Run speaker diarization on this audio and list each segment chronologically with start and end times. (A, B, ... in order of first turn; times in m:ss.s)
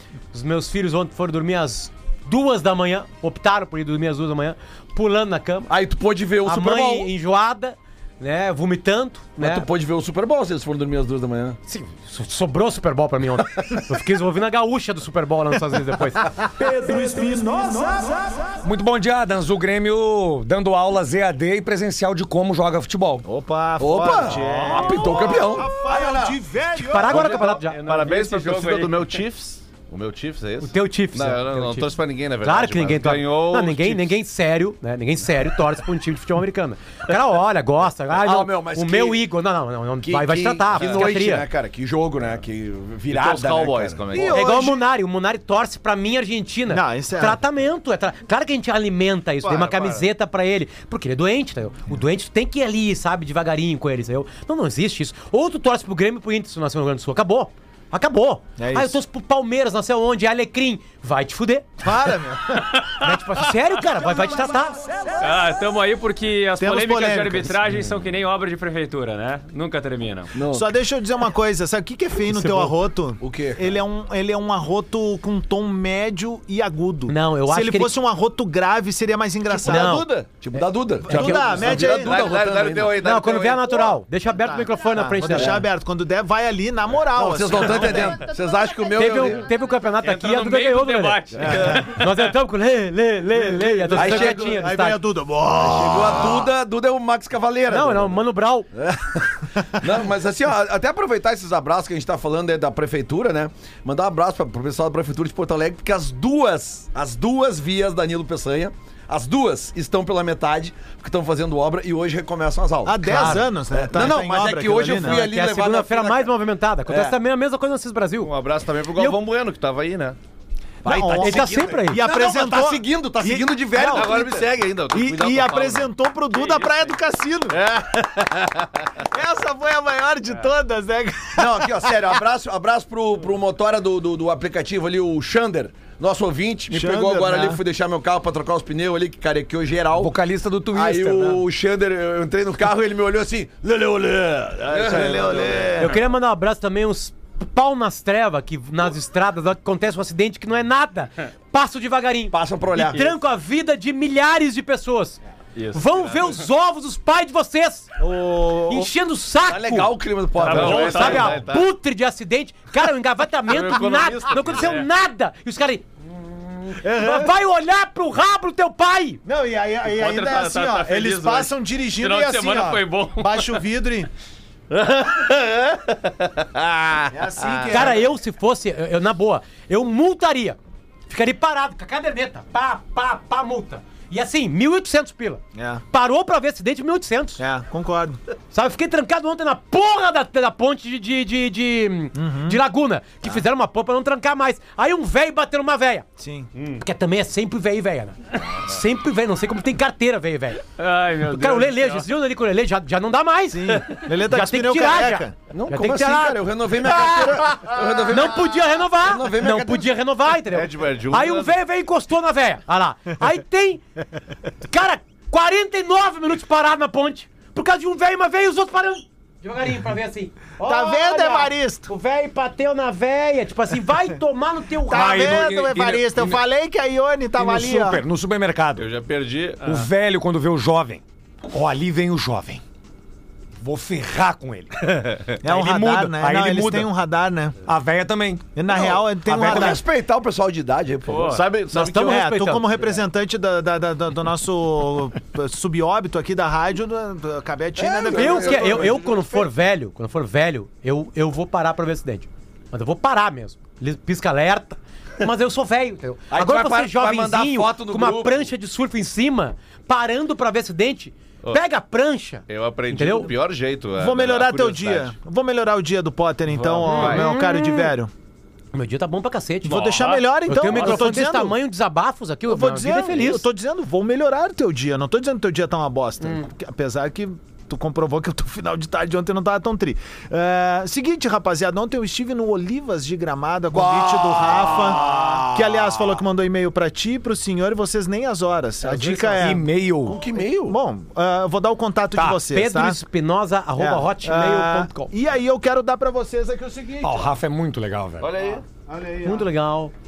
0:00.3-0:05.7 A
0:05.7-0:07.1 B
0:06.4-0:09.7 A
0:09.4-0:11.6 B
0:11.7-0:16.3 A
0:16.5-0:18.5 C
0:18.6-0:23.2 D
0:23.2-0:27.4 C
0:23.8-0:26.4 B
0:26.8-0:27.8 A
0:27.0-0:34.2 E
0:27.8-0:29.2 F
0:30.6-0:41.5 A
0:38.1-0:39.2 B
0:40.0-0:44.3 B
0:40.8-0:41.1 E
0:43.1-0:44.5 E
0:44.1-0:44.8 C
0:44.1-1:01.9 A
0:46.7-0:47.4 C
0:49.4-0:50.0 C
0:58.6-0:59.0 C
1:01.8-1:02.7 C
1:02.5-1:03.4 F
1:02.9-1:04.8 A
1:05.2-1:10.3 F
1:06.6-1:07.5 C
1:10.3-1:10.7 B
1:10.5-1:20.1 C
1:12.3-1:12.7 A
1:13.2-1:13.8 B
1:17.1-1:17.9 A
1:19.6-1:23.1 B
1:19.6-1:20.1 A
1:21.0-1:22.2 C
1:21.1-1:23.7 E
1:22.9-1:25.6 A
1:24.3-1:28.2 C
1:25.3-1:25.6 B
1:27.1-1:29.4 B
1:28.9-1:35.0 A
1:30.0-1:32.0 F
1:31.4-1:31.8 C
1:33.4-1:36.5 C
1:33.9-1:34.6 B
1:35.5-1:38.2 B
1:37.7-1:38.7 A
1:38.7-1:56.3 B
1:52.8-1:55.2 C
1:53.1-1:53.4 A
1:55.0-1:59.2 A
1:56.8-1:57.2 B
1:58.2-2:00.2 E
2:00.8-2:04.2 C
2:00.8-2:04.5 B
2:01.1-2:02.0 A
2:03.8-2:05.9 E
2:04.9-2:07.6 C
2:07.5-2:08.8 E
2:09.0-2:12.2 C
2:11.4-2:20.2 B
2:16.7-2:17.6 C
2:19.9-2:21.4 D
2:20.7-2:26.0 B
2:24.7-2:25.7 E
2:24.7-2:25.9 C
2:25.8-2:35.2 A
2:32.3-2:33.1 B
2:35.5-2:36.4 F
2:35.7-2:37.9 A
2:38.0-2:38.9 C
2:38.7-2:49.2 A
2:39.4-2:41.4 B
2:40.4-2:41.4 F
2:40.4-2:41.6 E
2:43.5-2:44.8 E
2:46.8-2:47.3 C
2:49.2-2:54.1 C
2:49.8-2:53.6 F
2:56.6-2:57.0 E
2:57.1-2:58.1 C
2:57.7-3:00.6 A
3:01.1-3:07.4 A
3:05.5-3:05.8 C
3:07.4-3:08.2 C
3:08.5-3:16.1 A
3:12.1-3:12.6 C
3:16.2-3:16.5 C
3:16.8-3:20.6 A
3:20.8-3:22.0 F
3:21.2-3:33.8 A
3:23.5-3:25.4 C
3:25.5-3:29.9 B
3:30.5-3:31.6 E
3:34.7-3:45.5 A
3:40.6-3:41.9 C
3:44.8-3:48.0 C
3:44.9-3:46.2 D
3:47.3-3:48.9 D
3:48.7-3:49.8 E
3:49.6-3:52.6 D
3:53.6-3:56.9 D
3:55.4-3:57.6 C
3:57.6-3:58.6 D
3:58.6-3:59.8 C
3:58.7-4:01.4 B
3:59.2-3:59.8 D
4:01.1-4:01.5 F
4:01.3-4:02.1 E
4:01.7-4:02.9 A
4:02.0-4:09.0 C
4:07.8-4:09.5 B
4:08.1-4:23.3 A
4:16.3-4:18.5 B
4:22.5-4:25.1 E
4:24.0-4:28.1 C
4:26.5-4:27.3 E
4:26.8-4:27.9 A
4:28.7-4:33.4 A
4:29.6-4:31.6 C
4:29.9-4:31.0 F
4:32.5-4:53.0 C
4:43.7-4:45.4 B
4:48.9-4:49.3 A
4:49.0-4:50.2 D
4:50.0-4:50.8 B
4:52.5-4:55.1 A
4:53.8-4:57.3 C
4:57.0-4:58.6 D
4:58.2-4:58.6 E
4:58.9-4:59.5 C
4:59.2-4:59.9 A